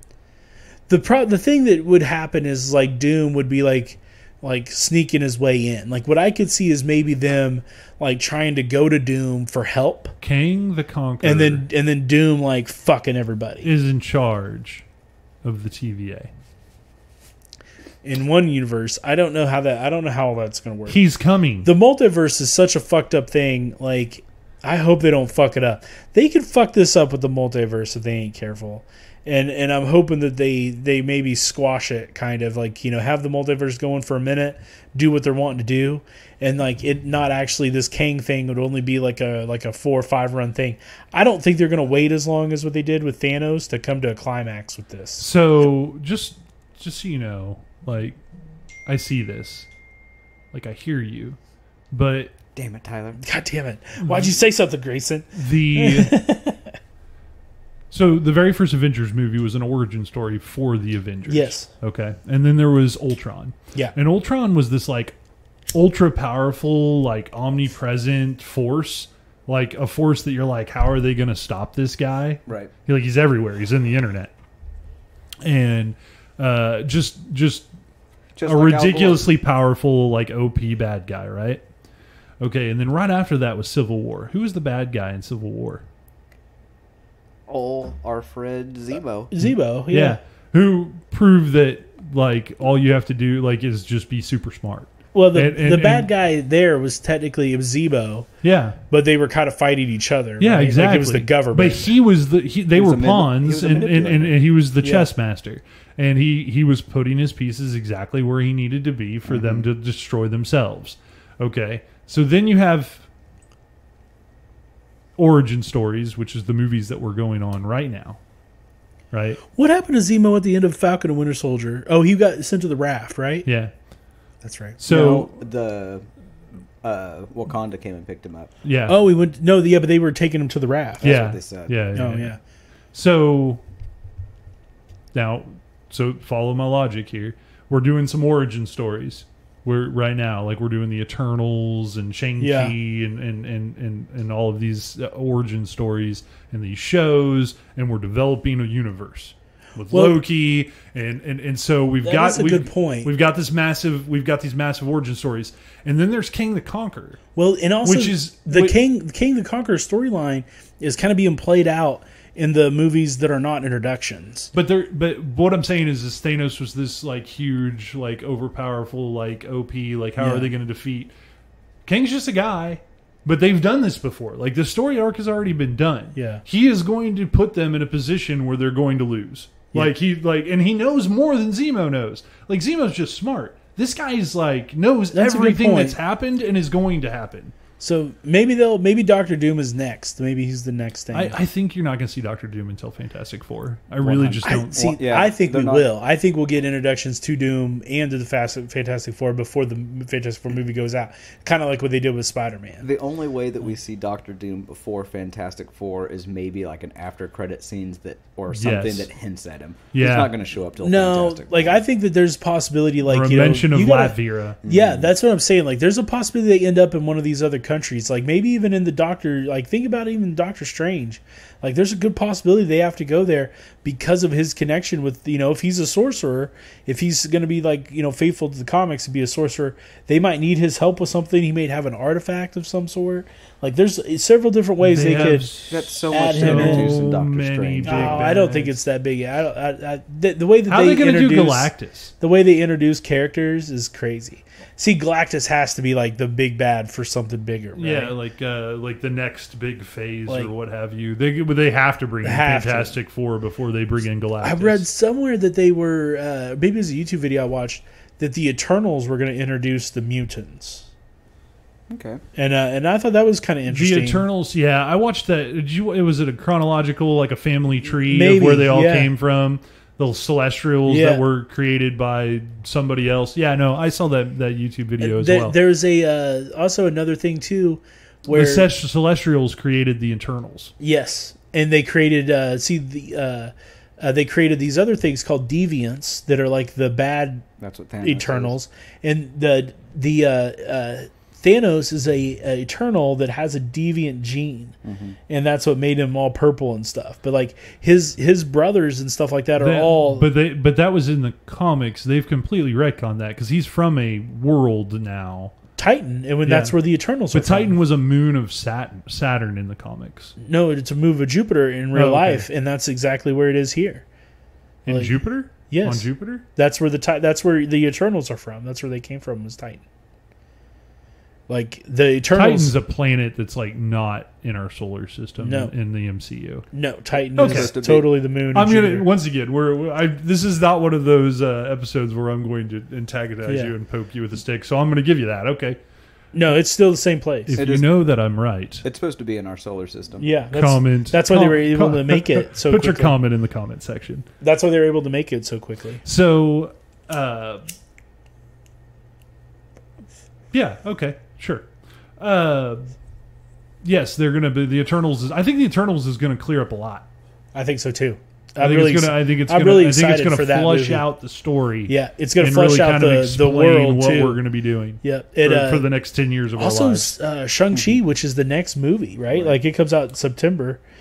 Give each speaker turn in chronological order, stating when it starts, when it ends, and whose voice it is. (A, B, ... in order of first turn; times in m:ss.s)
0:00.9-0:10.1 A
0:10.2-0:11.7 B
0:11.2-0:13.7 A
0:13.6-0:14.8 B
0:15.4-0:16.3 B
0:18.0-0:21.0 A
0:20.9-0:21.7 B
0:21.6-0:45.3 A
0:45.2-0:48.2 B
0:48.9-0:49.7 B
0:50.5-0:51.4 B
0:51.9-0:52.3 B
0:52.6-0:53.2 C
0:53.2-0:56.6 A
0:54.0-0:54.3 B
0:55.4-0:56.1 B
0:57.9-1:05.2 B
1:01.3-1:01.7 A
1:05.7-1:14.3 B
1:12.5-1:12.7 C
1:15.4-1:17.7 B
1:18.4-1:19.2 C
1:18.4-1:21.6 B
1:22.4-1:25.9 B
1:27.5-1:29.3 C
1:29.3-1:30.2 A
1:29.4-1:36.1 B
1:35.1-1:38.3 A
1:38.4-1:38.8 B
1:38.9-1:41.9 A
1:40.4-1:53.1 B
1:42.8-1:44.4 C
1:44.8-1:45.1 A
1:49.3-1:49.7 C
1:55.2-1:58.2 B
1:59.1-1:59.4 B
1:59.6-2:03.5 A
2:03.5-2:03.7 B
2:04.4-2:04.8 A
2:04.8-2:05.3 B
2:04.9-2:06.1 C
2:06.8-2:08.5 C
2:08.6-2:09.0 B
2:08.9-2:11.1 A
2:11.0-2:11.8 C
2:11.0-2:12.4 B
2:12.0-2:12.4 A
2:12.9-2:13.6 B
2:15.1-2:37.2 B
2:22.4-2:22.8 A
2:29.9-2:30.2 A
2:32.0-2:33.1 A
2:37.4-2:44.5 A
2:37.8-2:38.8 B
2:44.5-2:51.1 B
2:50.2-2:50.5 A
2:51.9-3:07.5 B
2:56.2-2:56.4 A
3:05.1-3:06.0 A
3:07.8-3:11.4 A
3:11.1-3:14.7 B
3:14.0-3:22.9 A
3:14.1-3:15.9 C
3:22.8-3:31.8 C
3:28.5-3:29.1 B
3:29.9-3:30.3 B
3:30.8-3:55.5 A
3:33.1-3:34.6 B
3:34.6-3:35.1 C
3:54.8-3:58.7 B
3:55.7-3:58.4 C
3:56.1-3:57.0 A
3:57.8-4:08.1 A
4:00.7-4:02.1 B
4:07.8-4:14.8 B
4:12.2-4:13.0 A
4:14.4-4:20.9 A
4:21.9-4:22.2 C
4:22.4-4:24.2 A
4:23.7-4:35.6 B
4:28.0-4:29.1 A
4:30.9-4:31.2 A
4:35.0-4:38.7 A
4:38.3-4:40.7 B
4:40.8-4:47.5 A
4:47.6-4:48.6 C
4:48.0-4:54.8 A
4:54.8-4:55.2 C
4:55.3-5:00.3 A
4:59.6-5:05.6 B
5:05.8-5:07.8 A
5:06.5-5:06.8 B
5:07.3-5:10.3 B
5:10.4-5:14.0 A
5:11.9-5:12.5 B
5:14.9-5:16.4 B
5:14.9-5:19.8 A
5:21.5-5:22.7 A
5:22.4-5:26.6 B
5:25.4-5:25.7 A
5:26.7-5:29.1 A
5:27.4-5:27.7 B
5:27.4-5:28.1 C
5:28.5-5:35.8 B
5:33.5-5:33.7 A
5:36.3-5:37.6 A
5:37.5-5:38.8 B
5:37.6-5:37.9 C
5:38.8-5:40.3 C
5:40.2-5:43.2 A
5:40.5-5:44.3 B
5:44.4-5:46.0 A
5:46.0-5:47.6 B
5:50.5-5:51.7 B
5:52.2-5:52.9 B
5:53.8-5:57.1 B
5:57.5-6:01.0 A
5:58.6-6:07.1 B
6:01.9-6:04.4 A
6:05.0-6:05.9 A
6:06.6-6:10.8 A
6:09.3-6:09.6 C